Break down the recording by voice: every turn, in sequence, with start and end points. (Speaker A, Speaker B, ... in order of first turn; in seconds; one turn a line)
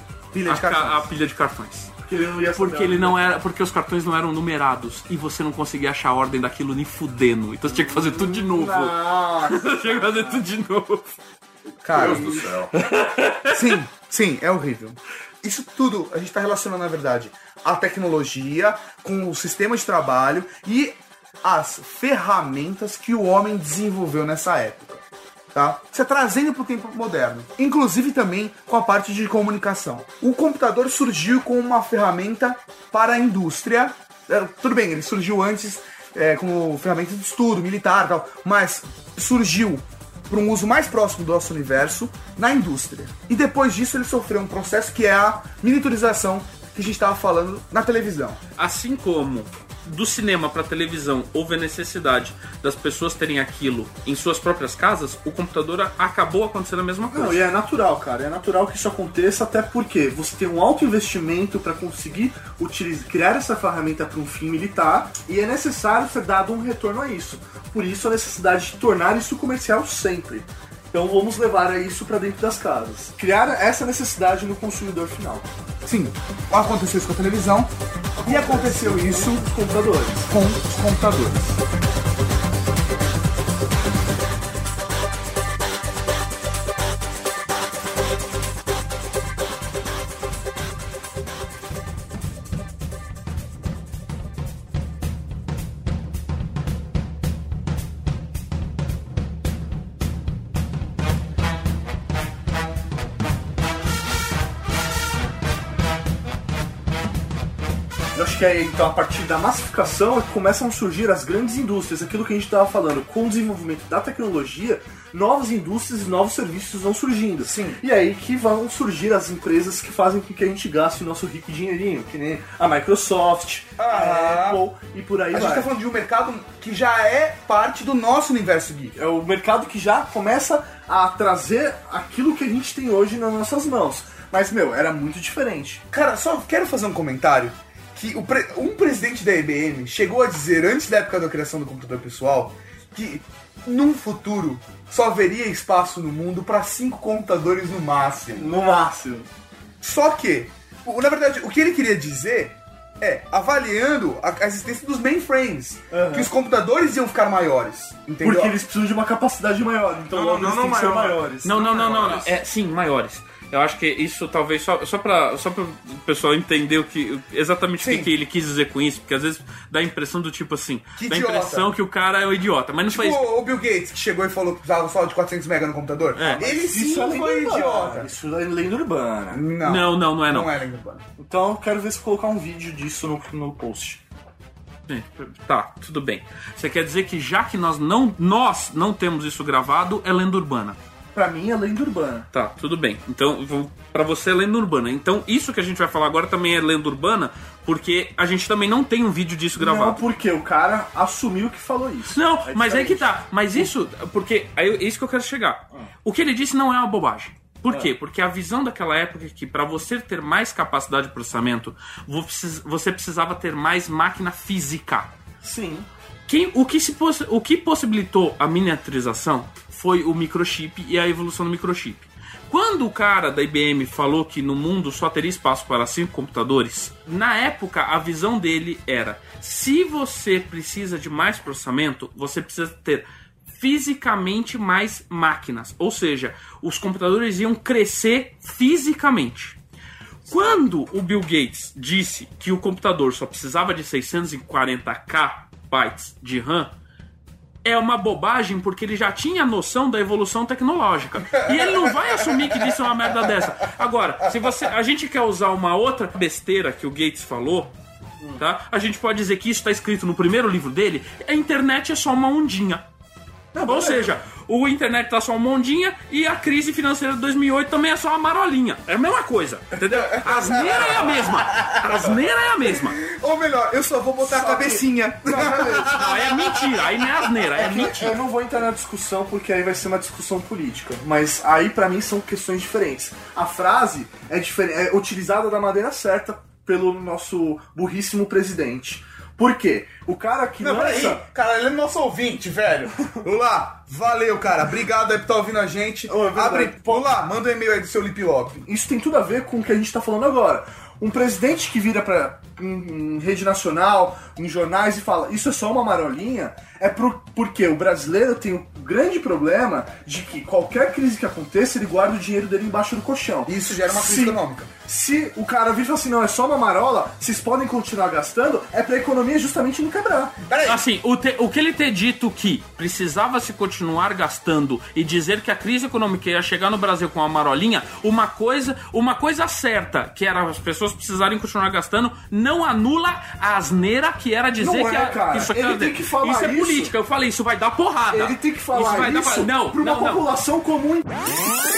Speaker A: 0.3-1.1
Speaker B: 0.5-1.9
Speaker C: 2.1-3.2
Speaker B: 2.5-11.2
Speaker C: 7.8-10.2
Speaker A: 11.8-12.5
Speaker D: 11.9-12.7
Speaker B: 12.7-13.7
Speaker A: 13.5-48.4
Speaker B: 48.6-57.4
Speaker C: 57.1-75.5
Speaker A: 75.8-77.7
Speaker C: 78.2-80.3
Speaker A: 78.2-79.5
Speaker A: 80.3-81.6
Speaker C: 108.1-125.7
Speaker A: 117.4-117.8
Speaker A: 123.8-124.6
Speaker A: 125.3-128.9
Speaker C: 129.0-135.8
Speaker A: 135.9-148.5
Speaker C: 148.4-149.3
Speaker A: 149.8-158.6
Speaker C: 155.9-156.3
Speaker C: 158.2-162.1
Speaker D: 160.1-162.3
Speaker B: 161.4-173.3
Speaker A: 167.8-168.1
Speaker A: 171.0-171.7
Speaker A: 172.9-178.1
Speaker B: 176.1-176.4
Speaker C: 176.4-179.4
Speaker A: 179.3-181.1
Speaker B: 179.6-180.5
Speaker C: 181.2-184.0
Speaker B: 184.9-190.8
Speaker C: 191.1-192.3
Speaker B: 192.3-200.0
Speaker C: 199.6-203.7
Speaker B: 202.1-215.1
Speaker C: 215.4-215.9
Speaker B: 216.3-239.6
Speaker B: 240.3-246.7
Speaker B: 247.6-257.7
Speaker B: 258.4-262.9
Speaker C: 263.5-264.1
Speaker B: 263.6-273.0
Speaker A: 269.9-272.0
Speaker A: 272.7-276.6
Speaker C: 274.2-276.1
Speaker B: 275.9-278.2
Speaker C: 277.5-291.2
Speaker A: 290.6-298.7
Speaker C: 296.1-297.2
Speaker C: 298.7-320.4
Speaker A: 313.5-314.7
Speaker A: 320.4-320.9
Speaker B: 320.6-340.3
Speaker C: 334.6-336.9
Speaker C: 338.1-341.1